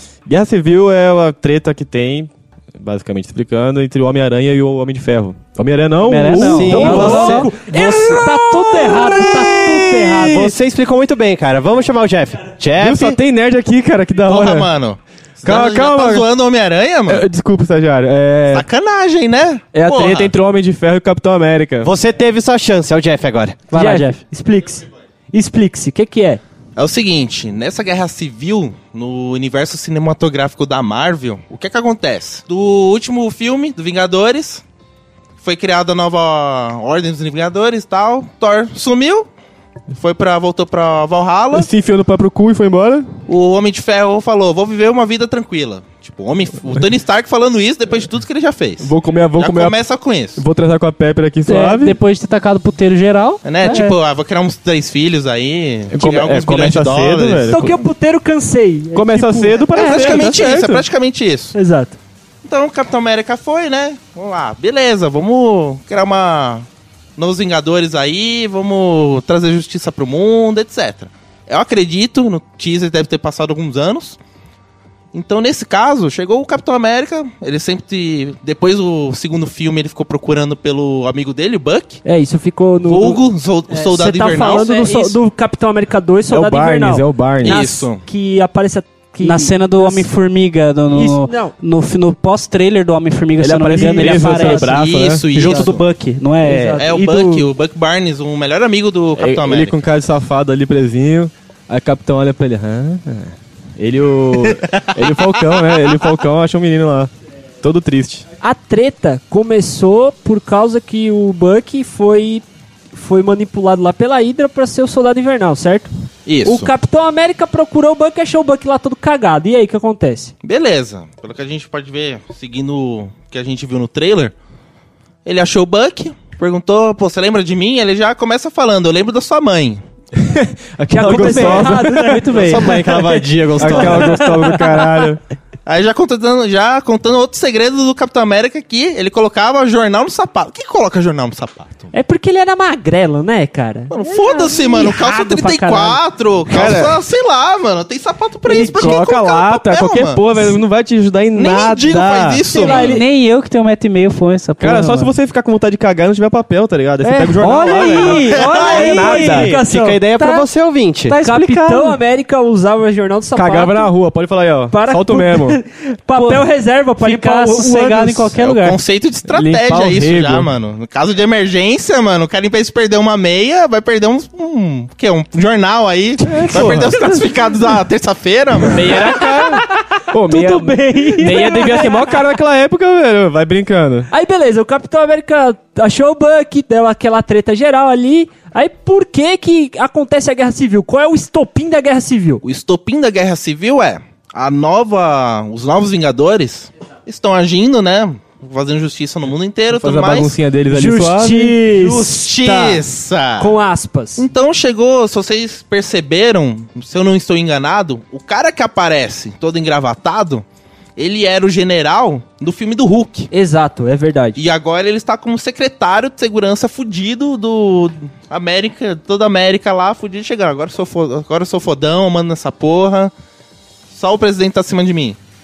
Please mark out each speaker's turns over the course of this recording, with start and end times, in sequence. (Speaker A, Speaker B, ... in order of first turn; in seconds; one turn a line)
Speaker A: 0.2-10.5
Speaker B: 6.0-7.5
Speaker C: 6.4-7.5
Speaker D: 6.7-10.5
Speaker E: 7.9-8.2
Speaker C: 10.2-13.2
Speaker A: 12.8-14.7
Speaker E: 14.2-17.2
Speaker A: 15.4-16.3
Speaker A: 17.1-18.7
Speaker E: 18.5-20.3
Speaker A: 19.7-21.9
Speaker C: 21.8-23.7
Speaker B: 23.7-24.2
Speaker D: 23.7-26.4
Speaker E: 26.8-34.6
Speaker E: 35.4-39.3
Speaker E: 39.9-41.7
Speaker A: 41.5-43.1
Speaker E: 43.3-50.4
Speaker A: 48.8-49.8
Speaker A: 50.3-52.0
Speaker B: 51.5-53.9
Speaker E: 53.4-57.6
Speaker A: 55.9-57.8
Speaker D: 57.5-60.4
Speaker A: 58.9-60.9
Speaker E: 59.7-61.5
Speaker D: 61.5-62.0
Speaker E: 62.4-66.7
Speaker E: 67.2-74.2
Speaker E: 75.1-82.0
Speaker D: 82.0-90.1
Speaker E: 82.8-84.7
Speaker B: 84.4-85.1
Speaker A: 86.3-87.6
Speaker E: 87.4-88.0
Speaker B: 89.2-96.8
Speaker D: 90.9-91.5
Speaker A: 93.4-95.3
Speaker D: 94.0-94.5
Speaker E: 94.2-95.8
Speaker D: 95.4-95.8
Speaker D: 96.4-97.5
Speaker E: 96.8-99.8
Speaker A: 99.2-107.1
Speaker A: 107.6-108.2
Speaker D: 108.4-115.9
Speaker E: 116.3-116.7
Speaker D: 116.4-120.3
Speaker E: 120.4-124.3
Speaker E: 125.2-129.8
Speaker A: 130.1-133.0
Speaker D: 130.9-135.1
Speaker C: 132.3-134.2
Speaker A: 133.6-135.2
Speaker E: 135.7-141.9
Speaker D: 141.9-146.0
Speaker E: 143.9-150.2
Speaker A: 146.5-147.0
Speaker A: 148.4-152.7
Speaker E: 151.3-153.0
Speaker D: 152.5-153.0
Speaker B: 152.6-155.1
Speaker A: 154.6-159.6
Speaker D: 157.0-160.0
Speaker B: 157.4-159.5
Speaker C: 157.6-161.2
Speaker B: 160.2-160.4
Speaker B: 161.1-162.0
Speaker D: 161.2-163.9
Speaker A: 163.3-165.6
Speaker D: 164.7-168.4
Speaker B: 166.2-166.5
Speaker B: 167.0-168.8
Speaker E: 168.4-179.0
Speaker A: 169.3-170.5
Speaker A: 176.3-177.0
Speaker A: 178.7-184.1
Speaker D: 179.0-182.2
Speaker B: 180.5-181.7
Speaker D: 184.1-192.4
Speaker E: 192.4-200.3
Speaker A: 199.7-201.6
Speaker D: 200.7-202.8
Speaker E: 201.7-203.6
Speaker D: 203.4-204.2
Speaker E: 204.2-210.4
Speaker E: 211.0-213.3
Speaker D: 213.3-214.4
Speaker E: 214.3-223.1
Speaker E: 223.9-225.2